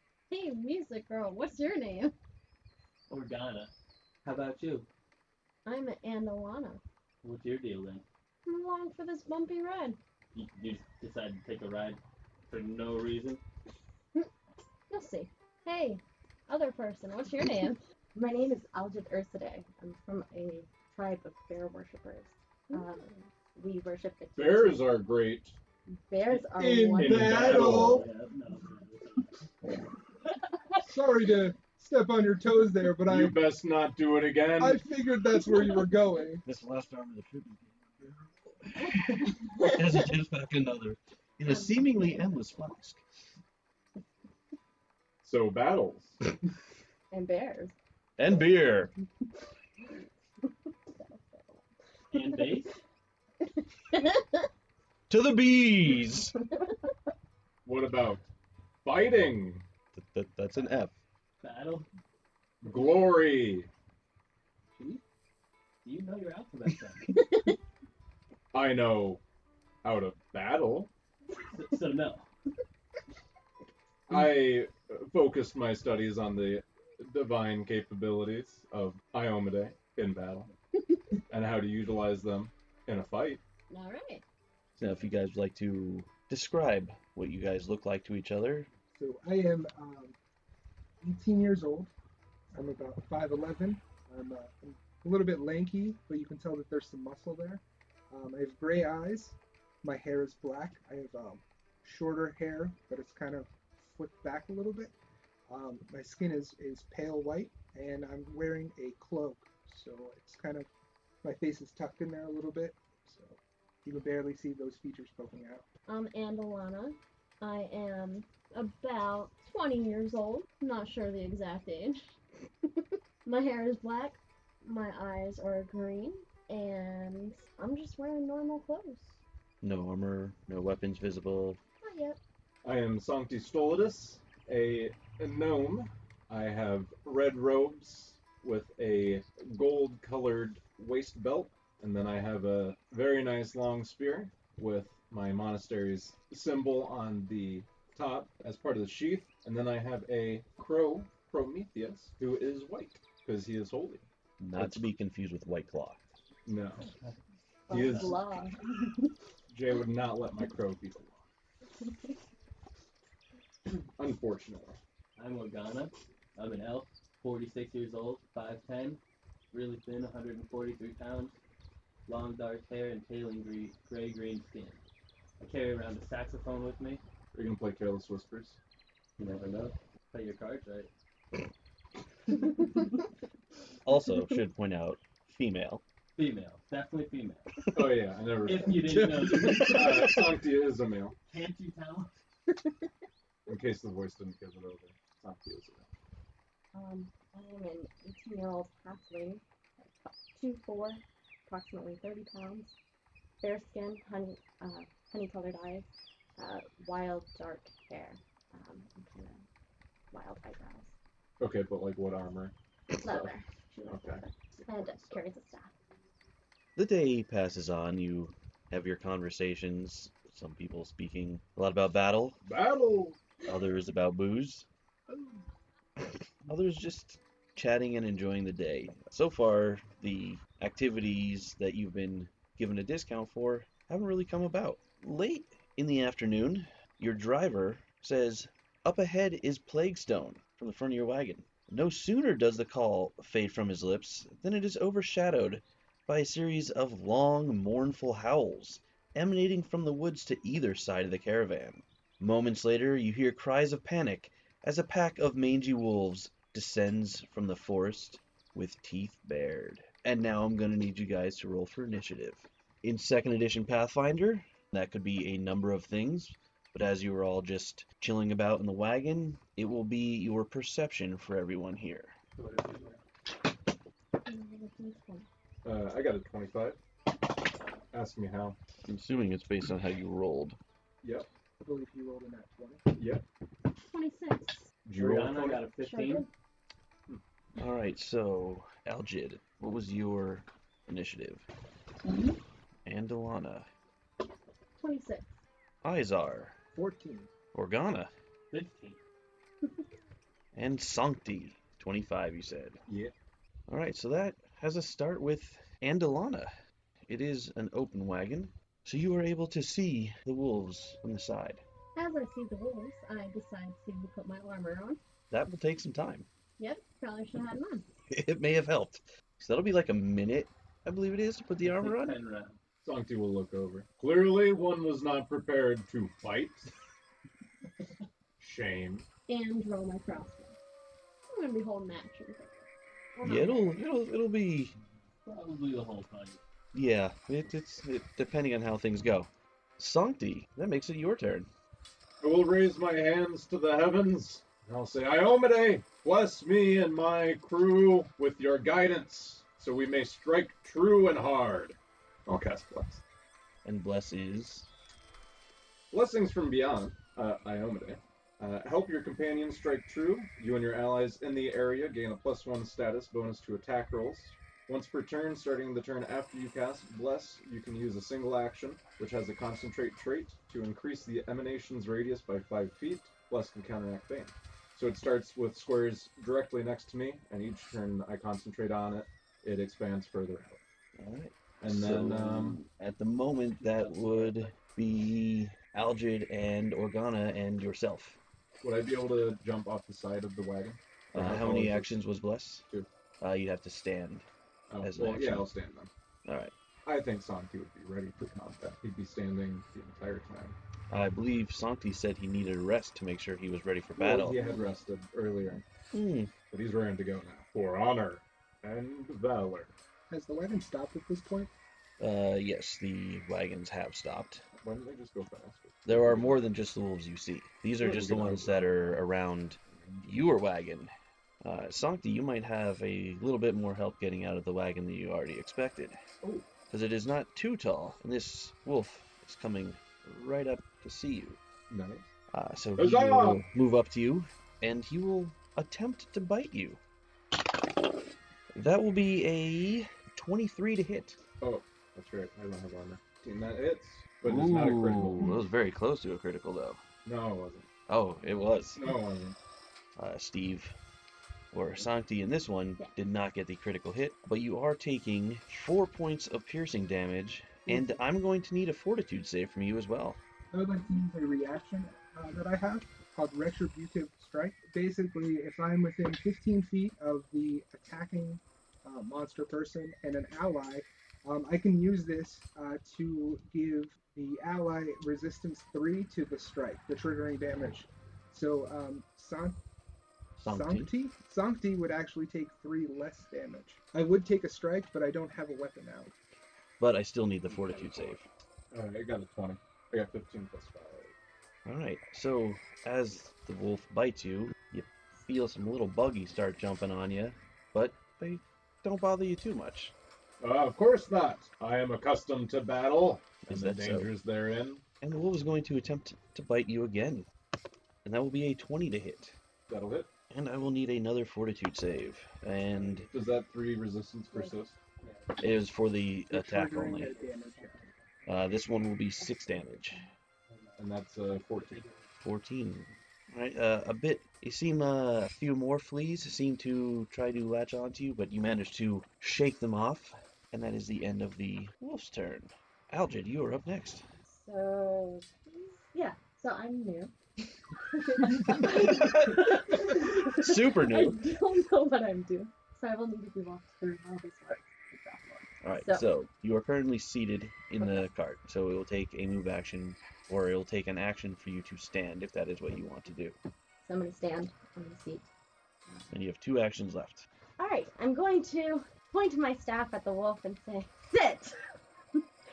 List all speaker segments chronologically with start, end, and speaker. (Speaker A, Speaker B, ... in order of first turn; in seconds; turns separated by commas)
Speaker A: 0.3-2.1, Speaker B: 3.1-3.7, Speaker B: 4.2-4.9, Speaker A: 5.7-6.8, Speaker B: 7.2-8.0, Speaker A: 8.4-10.0, Speaker B: 10.3-13.4, Speaker A: 14.9-17.8, Speaker C: 18.1-24.9, Speaker A: 22.7-22.9, Speaker D: 24.4-25.5, Speaker C: 25.9-27.7, Speaker E: 26.5-28.1, Speaker D: 27.0-28.1, Speaker B: 27.0-29.4, Speaker E: 30.8-33.4, Speaker D: 33.0-34.8, Speaker E: 34.6-36.5, Speaker F: 36.4-37.7, Speaker F: 38.7-43.0, Speaker D: 45.2-46.2, Speaker C: 47.1-47.7, Speaker F: 48.2-48.9, Speaker C: 50.9-51.6, Speaker B: 52.1-52.8, Speaker C: 53.9-54.2, Speaker F: 55.1-56.3, Speaker D: 57.6-58.2, Speaker D: 58.8-59.6, Speaker F: 59.9-61.0, Speaker B: 61.4-61.9, Speaker D: 62.6-63.7, Speaker B: 64.8-65.0, Speaker B: 65.8-67.1, Speaker D: 68.5-69.2, Speaker D: 69.8-70.9, Speaker B: 71.4-72.2, Speaker D: 74.1-80.5, Speaker D: 81.3-83.4, Speaker A: 83.7-84.2, Speaker F: 84.8-88.7, Speaker E: 88.9-90.2, Speaker E: 91.0-91.9, Speaker E: 92.5-104.9, Speaker E: 105.5-110.7, Speaker E: 111.2-115.7, Speaker A: 115.9-122.1, Speaker A: 123.2-129.2, Speaker F: 129.6-131.6, Speaker A: 131.8-132.2, Speaker D: 132.6-154.0, Speaker F: 154.4-156.0, Speaker D: 154.6-154.8, Speaker D: 156.4-156.8, Speaker C: 157.7-158.6, Speaker D: 157.7-158.2, Speaker D: 159.5-161.2, Speaker D: 164.0-164.8, Speaker B: 165.2-169.0, Speaker B: 169.5-171.3, Speaker B: 172.1-174.8, Speaker B: 175.4-177.0, Speaker D: 177.3-178.6, Speaker B: 179.2-180.9, Speaker F: 183.8-185.8, Speaker B: 186.2-187.7, Speaker D: 187.7-191.1, Speaker B: 188.4-190.3, Speaker B: 191.3-192.1, Speaker D: 193.5-195.9, Speaker C: 196.7-202.7, Speaker C: 203.4-209.4, Speaker C: 210.1-210.9, Speaker D: 211.4-213.3, Speaker C: 213.0-215.7, Speaker D: 213.9-215.2, Speaker F: 216.8-222.4, Speaker D: 222.4-223.2, Speaker F: 223.4-224.7, Speaker D: 225.1-225.4, Speaker F: 226.5-272.1, Speaker B: 272.4-273.0, Speaker A: 274.2-275.2, Speaker D: 275.6-276.8, Speaker D: 277.9-278.6, Speaker F: 278.9-280.6, Speaker E: 281.6-282.8, Speaker D: 282.9-283.2, Speaker A: 283.8-284.6, Speaker D: 284.9-285.7, Speaker B: 285.0-286.2, Speaker A: 285.8-286.3, Speaker F: 287.6-291.4, Speaker F: 292.9-293.7, Speaker A: 294.8-295.3, Speaker F: 295.8-296.6, Speaker E: 296.7-297.3, Speaker F: 297.5-298.1, Speaker B: 298.5-299.0, Speaker F: 300.5-302.8, Speaker D: 302.9-303.1, Speaker F: 303.7-306.5, Speaker F: 307.1-311.6, Speaker A: 311.9-315.0, Speaker F: 315.3-316.3, Speaker A: 316.6-317.9, Speaker F: 318.1-322.1, Speaker B: 321.6-322.6, Speaker D: 322.8-326.7, Speaker D: 328.4-329.1, Speaker A: 329.3-330.5, Speaker A: 331.3-332.6, Speaker A: 333.2-333.8, Speaker F: 333.2-334.7, Speaker B: 335.2-336.4, Speaker F: 336.7-341.5, Speaker D: 342.2-353.0, Speaker F: 353.6-354.7, Speaker D: 355.9-380.6, Speaker F: 380.9-388.2, Speaker D: 381.6-382.6, Speaker B: 383.6-384.6, Speaker D: 388.6-392.0, Speaker F: 391.1-392.6, Speaker F: 393.2-394.3, Speaker D: 394.7-395.9, Speaker F: 394.8-395.5, Speaker F: 396.2-396.5, Speaker D: 396.9-400.6, Speaker F: 400.9-404.4, Speaker D: 404.0-405.6, Speaker F: 405.9-406.3, Speaker D: 406.5-409.7, Speaker E: 410.1-411.5, Speaker F: 412.0-414.4, Speaker D: 414.6-416.5, Speaker F: 415.9-426.0, Speaker D: 417.8-418.9, Speaker D: 419.7-420.2, Speaker D: 426.2-426.5, Speaker F: 426.7-431.4, Speaker D: 431.7-432.1, Speaker F: 432.3-436.8, Speaker D: 432.8-433.4, Speaker F: 438.5-441.2, Speaker D: 441.4-445.4, Speaker F: 444.2-446.8, Speaker D: 447.0-447.7, Speaker F: 447.9-448.8, Speaker D: 448.8-449.4, Speaker F: 449.9-450.7, Speaker F: 451.5-460.2, Speaker E: 457.7-457.9, Speaker E: 460.5-479.6, Speaker F: 480.4-480.9, Speaker E: 480.4-486.1, Speaker F: 486.8-488.2, Speaker B: 487.5-488.2, Speaker D: 488.7-491.1, Speaker F: 491.6-499.9, Speaker D: 500.4-504.8, Speaker F: 503.4-504.1, Speaker F: 505.0-507.3, Speaker F: 508.0-509.4, Speaker D: 509.7-510.1, Speaker F: 510.3-513.1, Speaker B: 512.7-513.1, Speaker D: 513.1-514.8, Speaker B: 515.0-515.4, Speaker F: 515.4-517.1, Speaker E: 516.3-517.9, Speaker B: 516.9-518.1, Speaker F: 518.2-520.0, Speaker B: 520.5-522.1, Speaker D: 520.8-521.8, Speaker F: 522.2-534.1, Speaker C: 534.2-537.1, Speaker C: 537.9-546.1, Speaker F: 538.9-539.5, Speaker F: 540.3-541.2, Speaker F: 545.6-553.4, Speaker C: 547.8-548.1, Speaker C: 553.8-555.2, Speaker F: 556.1-557.2, Speaker C: 557.6-561.6